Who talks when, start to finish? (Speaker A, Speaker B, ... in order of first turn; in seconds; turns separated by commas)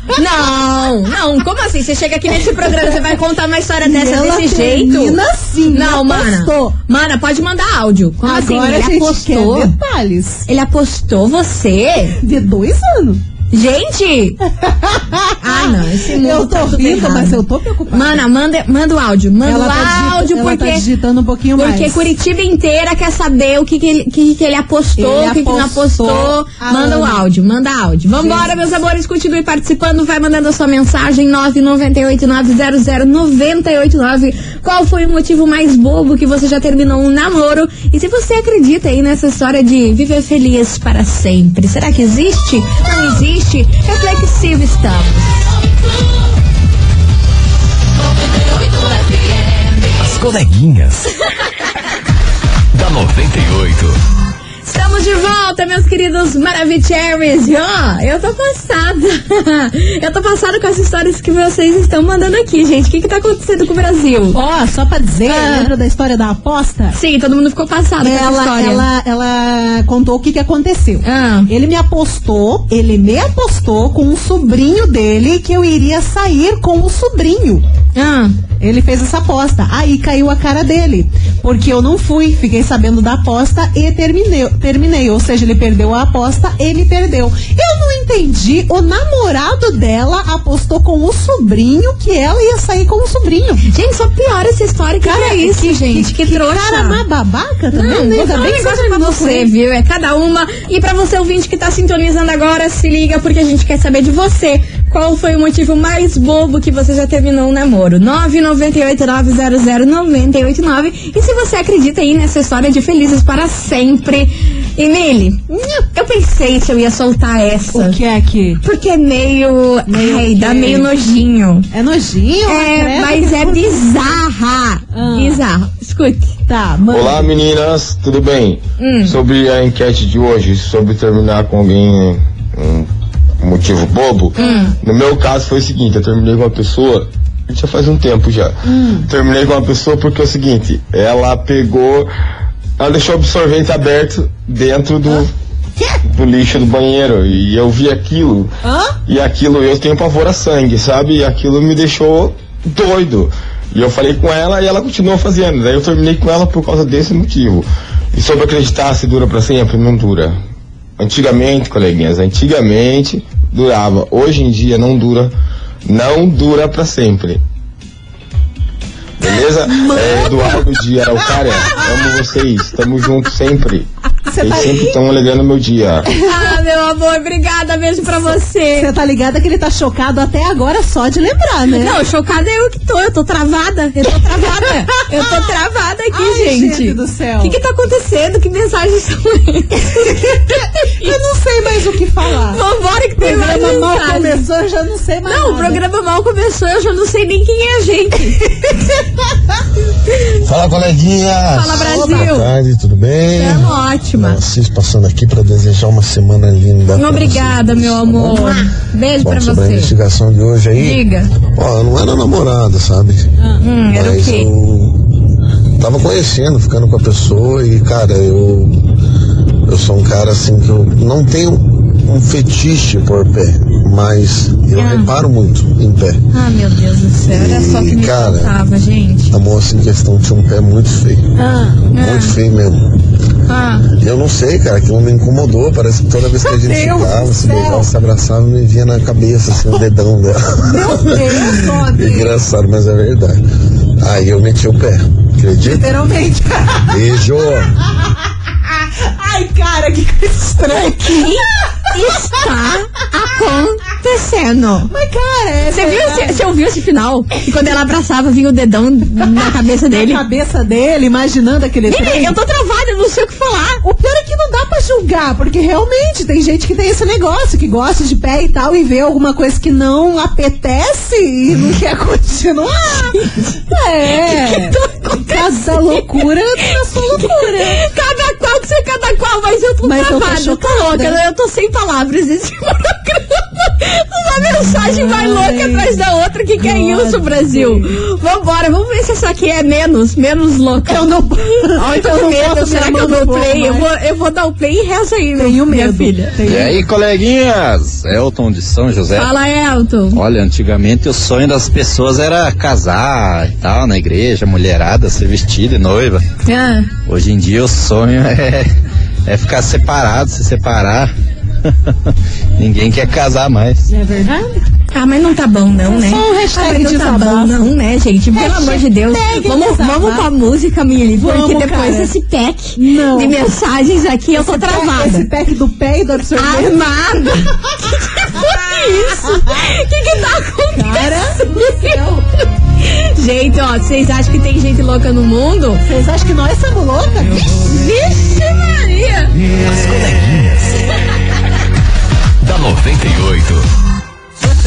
Speaker A: 0.1-5.2, Speaker B: 2.6-3.0, Speaker B: 3.8-6.7, Speaker A: 5.7-9.7, Speaker B: 8.2-10.4, Speaker A: 10.5-12.2, Speaker B: 12.2-13.2, Speaker A: 13.5-14.4, Speaker B: 14.6-18.2, Speaker A: 15.4-20.9, Speaker B: 19.4-22.1, Speaker A: 21.6-45.5, Speaker B: 25.0-27.2, Speaker B: 28.2-28.5, Speaker C: 50.0-51.1, Speaker C: 52.7-54.0, Speaker A: 54.6-64.4, Speaker B: 64.3-67.0, Speaker A: 65.3-65.7, Speaker A: 66.9-68.9, Speaker B: 68.0-77.7, Speaker A: 71.0-71.5, Speaker A: 78.0-78.4, Speaker B: 78.6-93.6, Speaker A: 93.7-97.0, Speaker B: 95.0-99.5, Speaker A: 97.7-118.0, Speaker B: 115.5-115.9, Speaker B: 117.7-118.6, Speaker A: 118.6-121.7, Speaker B: 119.9-120.9, Speaker B: 121.7-123.9, Speaker A: 122.5-126.3, Speaker B: 124.9-125.4, Speaker B: 126.5-127.3, Speaker D: 126.9-132.9, Speaker A: 128.8-129.2, Speaker D: 133.4-142.1, Speaker B: 134.4-134.8, Speaker A: 134.4-134.7, Speaker B: 138.7-139.1, Speaker D: 142.8-145.3, Speaker D: 146.1-148.5, Speaker B: 148.6-149.0, Speaker D: 149.1-160.4, Speaker D: 161.0-165.3, Speaker D: 165.8-167.4, Speaker D: 169.2-173.9, Speaker B: 169.2-172.4, Speaker B: 174.3-175.0, Speaker D: 174.4-176.1, Speaker B: 176.1-176.6, Speaker A: 176.2-178.9, Speaker B: 178.8-182.0, Speaker A: 181.7-191.2, Speaker B: 186.1-187.6, Speaker B: 189.9-192.6, Speaker A: 192.5-194.4, Speaker B: 193.2-195.8, Speaker A: 195.3-198.4, Speaker B: 198.5-199.1, Speaker A: 200.1-200.3, Speaker E: 200.4-208.7, Speaker A: 201.5-202.5, Speaker B: 201.8-202.3, Speaker A: 203.4-204.4, Speaker A: 207.0-209.9, Speaker E: 209.2-213.3, Speaker A: 210.8-211.3, Speaker A: 213.6-214.5, Speaker E: 213.9-215.0, Speaker E: 215.8-218.8, Speaker E: 219.7-226.2, Speaker A: 224.8-225.1, Speaker A: 226.3-229.3, Speaker E: 227.3-228.6, Speaker E: 229.3-231.3, Speaker B: 231.4-231.8, Speaker A: 231.9-232.4, Speaker E: 231.9-233.0, Speaker A: 233.5-233.9, Speaker E: 233.9-243.4, Speaker B: 236.4-237.9, Speaker B: 240.7-242.4, Speaker E: 244.0-245.9, Speaker B: 245.6-247.0, Speaker E: 246.9-247.7, Speaker B: 248.9-251.2, Speaker A: 250.6-254.9, Speaker B: 254.9-256.4, Speaker A: 255.7-260.2, Speaker B: 259.3-262.4, Speaker A: 261.9-263.8, Speaker B: 263.8-277.8, Speaker A: 274.1-296.4, Speaker B: 279.8-281.2, Speaker B: 284.5-286.0, Speaker B: 286.6-287.9, Speaker B: 290.9-293.9, Speaker B: 295.4-296.8, Speaker F: 296.4-299.3, Speaker A: 299.1-300.2, Speaker F: 300.1-306.2, Speaker A: 306.4-306.9, Speaker F: 307.1-308.7, Speaker F: 309.3-311.1, Speaker F: 311.6-313.9, Speaker B: 313.9-314.6, Speaker A: 314.9-325.3, Speaker B: 315.9-317.6, Speaker B: 318.3-320.3, Speaker B: 321.2-322.1, Speaker B: 322.8-323.4, Speaker B: 324.4-326.8, Speaker A: 326.4-332.0, Speaker B: 328.3-329.8, Speaker B: 330.7-332.2, Speaker A: 332.8-335.9, Speaker B: 335.9-337.4, Speaker A: 337.6-339.3, Speaker C: 339.6-340.8, Speaker C: 342.4-343.7